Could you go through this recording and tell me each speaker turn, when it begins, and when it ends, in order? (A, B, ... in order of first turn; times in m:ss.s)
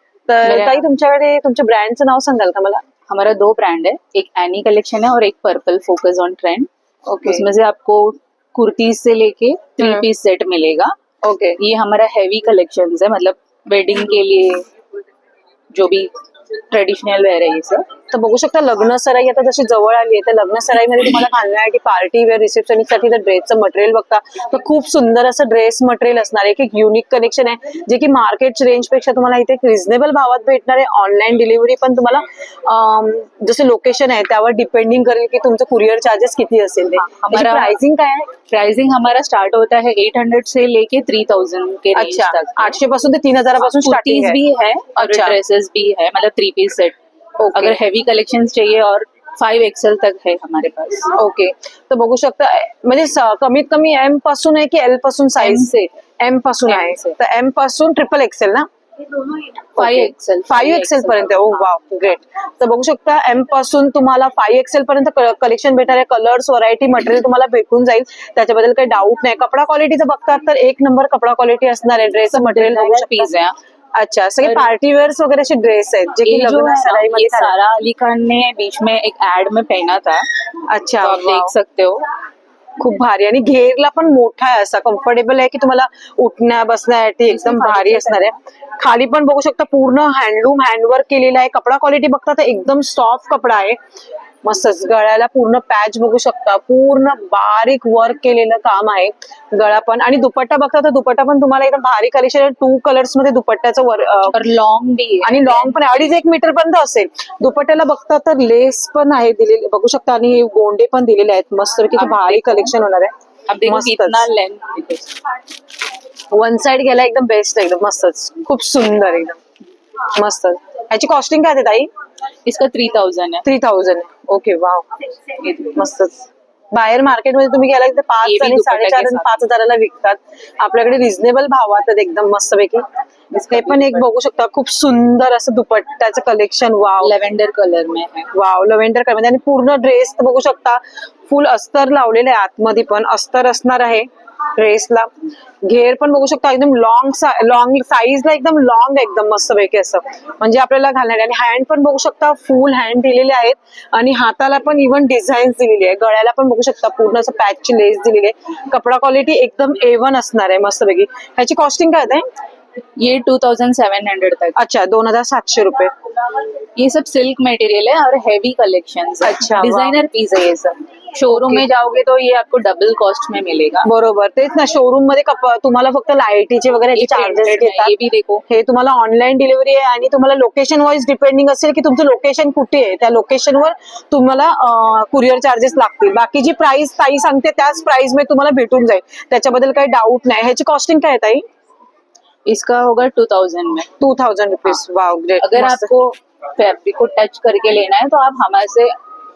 0:00.3-0:02.8 A
0:00.4-0:00.9 B
0:03.1-0:06.7 B
0:07.0-0:07.4 A
0:07.2-0:10.9 B
0:09.8-0:10.0 A
0:11.2-0:11.6 A
0:11.6-0:14.6 B
0:15.7-0:17.8 B
0:18.1-0:38.3 A
0:36.9-0:37.7 B
0:38.5-0:42.7 B
0:41.9-0:44.4 A
0:43.7-0:47.0 B
0:45.0-0:45.4 A
0:47.4-0:47.8 A
0:47.5-0:51.1 B
0:51.1-0:55.7 A
0:55.4-0:55.9 B
0:56.2-1:13.3 A
0:56.6-0:57.2 B
0:59.8-1:01.6 B
1:12.2-1:13.5 B
1:14.0-1:17.5 A
1:14.4-1:14.7 B
1:16.2-1:20.3 B
1:20.7-1:21.5 A
1:21.0-1:22.1 B
1:22.8-1:33.8 A
1:27.3-1:28.4 B
1:34.4-1:44.4 A
1:44.3-1:46.1 B
1:45.2-1:54.3 A
1:51.9-1:52.7 B
1:53.5-1:55.2 B
1:56.3-1:59.4 A
2:00.1-2:01.9 A
2:02.4-2:03.4 B
2:03.4-2:04.9 A
2:05.4-2:05.8 B
2:05.6-2:12.8 A
2:08.2-2:09.4 B
2:13.3-2:14.0 B
2:13.5-2:17.1 A
2:17.0-2:18.3 B
2:18.3-2:25.1 A
2:25.6-2:42.2 A
2:43.0-2:44.6 B
2:44.6-2:45.9 A
2:46.8-2:53.9 B
2:49.2-2:50.0 A
2:51.2-2:51.6 A
2:53.8-2:57.9 A
2:56.9-2:58.4 B
2:58.5-3:11.4 A
3:12.4-3:13.9 B
3:14.0-3:15.9 A
3:15.4-3:18.9 B